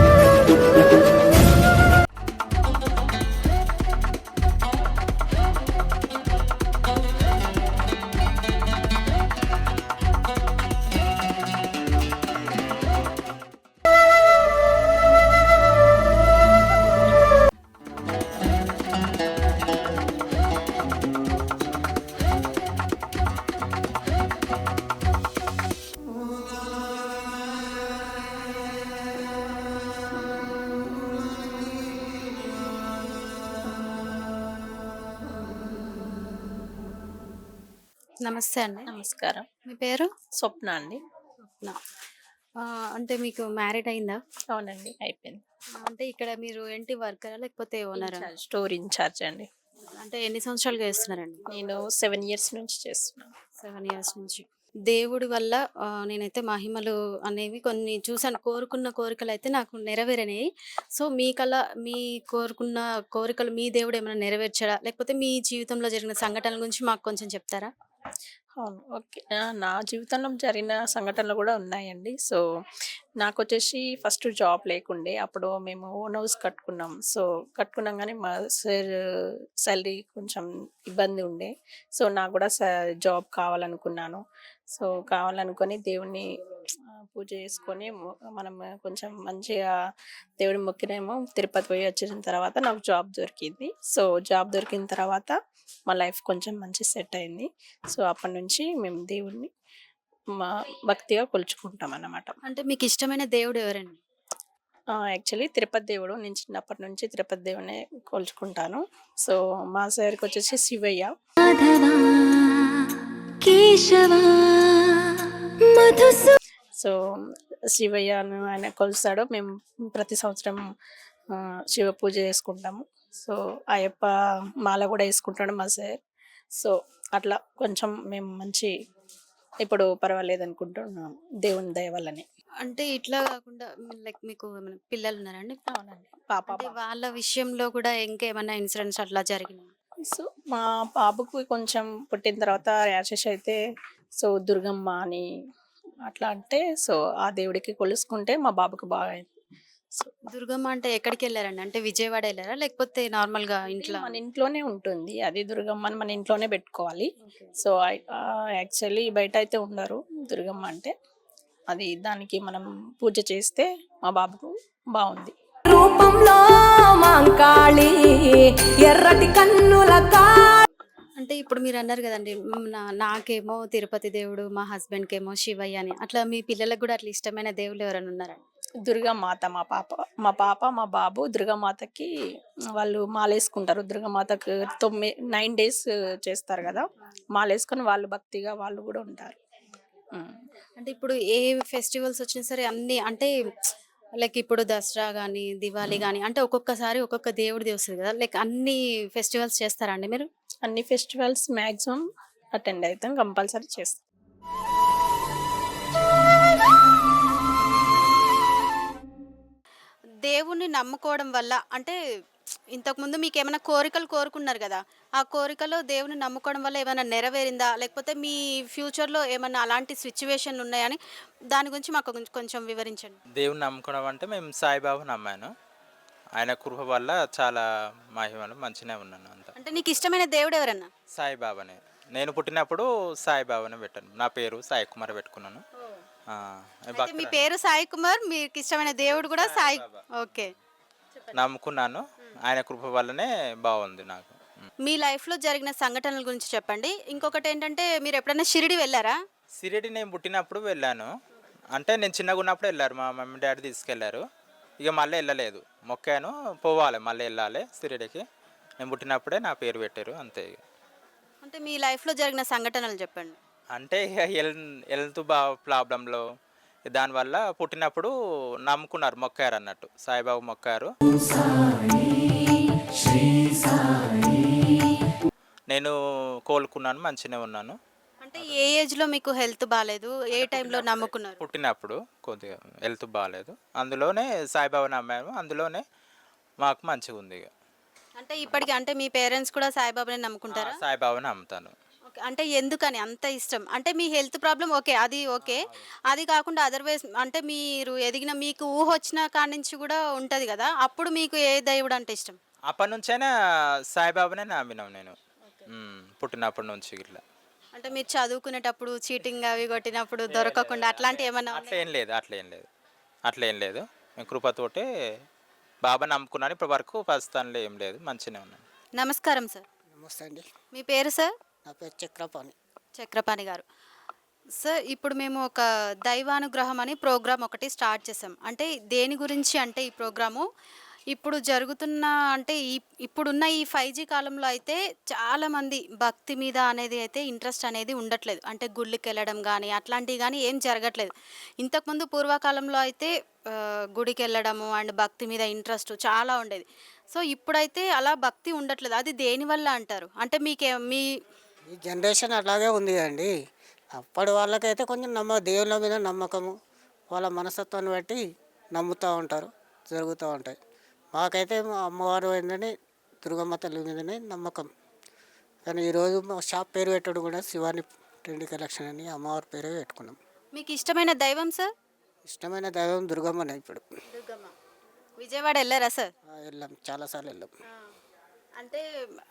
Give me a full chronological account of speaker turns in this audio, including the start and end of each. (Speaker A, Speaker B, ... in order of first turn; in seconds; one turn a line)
Speaker A: 38.2-38.9
Speaker B: 38.9-39.5
Speaker A: 39.6-40.1
Speaker B: 40.4-41.0
Speaker A: 41.5-41.8
Speaker A: 42.6-44.2
Speaker B: 44.5-45.4
Speaker A: 45.8-48.3
Speaker B: 48.0-49.5
Speaker A: 50.0-51.4
Speaker B: 51.5-53.3
Speaker A: 53.6-67.7
Speaker B: 68.6-72.4
Speaker B: 73.2-78.9
Speaker B: 79.6-86.3
Speaker B: 86.9-89.7
Speaker B: 90.4-95.3
Speaker B: 95.9-99.5
Speaker B: 100.4-102.3
Speaker A: 102.5-104.0
Speaker B: 104.9-111.1
Speaker C: 111.5-112.7
Speaker C: 113.4-116.3
Speaker B: 117.7-120.6
Speaker B: 121.3-124.1
Speaker B: 124.6-126.0
Speaker B: 126.5-128.7
Speaker B: 129.6-132.2
Speaker A: 132.6-135.6
Speaker B: 135.7-136.7
Speaker A: 136.5-139.7
Speaker B: 140.1-143.6
Speaker B: 144.2-145.2
Speaker B: 146.1-149.3
Speaker A: 150.3-154.2
Speaker B: 153.7-160.9
Speaker B: 161.7-165.3
Speaker C: 165.7-170.7
Speaker A: 171.2-178.4
Speaker B: 178.8-182.1
Speaker B: 182.8-189.4
Speaker A: 190.8-193.3
Speaker A: 194.2-200.3
Speaker B: 200.6-202.0
Speaker B: 202.5-204.0
Speaker A: 210.2-212.0
Speaker A: 212.7-221.0
Speaker A: 221.5-223.2
Speaker D: 223.3-225.5
Speaker D: 226.3-230.0
Speaker A: 229.6-230.9
Speaker D: 231.1-235.6
Speaker D: 236.3-237.4
Speaker A: 236.9-240.5
Speaker D: 238.8-240.1
Speaker D: 241.3-244.4
Speaker A: 244.8-249.2
Speaker D: 249.6-251.1
Speaker D: 251.7-254.2
Speaker D: 254.8-258.2
Speaker D: 258.8-260.6
Speaker A: 261.4-263.4
Speaker D: 263.7-266.2
Speaker D: 266.9-268.1
Speaker D: 268.7-271.6
Speaker C: 271.2-272.6
Speaker C: 273.1-274.7
Speaker D: 273.8-274.4
Speaker D: 276.5-277.8
Speaker A: 278.2-281.4
Speaker D: 280.3-285.8
Speaker D: 286.6-287.5
Speaker A: 288.2-290.8
Speaker D: 290.5-291.7
Speaker A: 292.1-302.4
Speaker D: 295.4-295.8
Speaker D: 302.7-303.3
Speaker D: 303.9-305.1
Speaker D: 305.7-307.2
Speaker A: 307.7-311.8
Speaker D: 310.3-312.7
Speaker D: 313.2-314.9
Speaker D: 315.8-318.6
Speaker A: 319.0-319.6
Speaker E: 319.9-320.4
Speaker A: 320.7-321.3
Speaker E: 321.6-322.5
Speaker A: 322.9-323.6
Speaker A: 324.6-330.4
Speaker A: 331.1-351.1
Speaker E: 351.7-353.3
Speaker E: 354.0-356.5
Speaker E: 357.1-358.2
Speaker E: 358.7-360.6
Speaker E: 361.1-362.7
Speaker E: 363.2-364.7
Speaker E: 365.7-370.2
Speaker A: 370.5-371.7
Speaker E: 372.3-373.8
Speaker A: 374.1-374.5
Speaker A: 375.2-376.1
Speaker E: 376.3-377.5
Speaker A: 378.6-378.8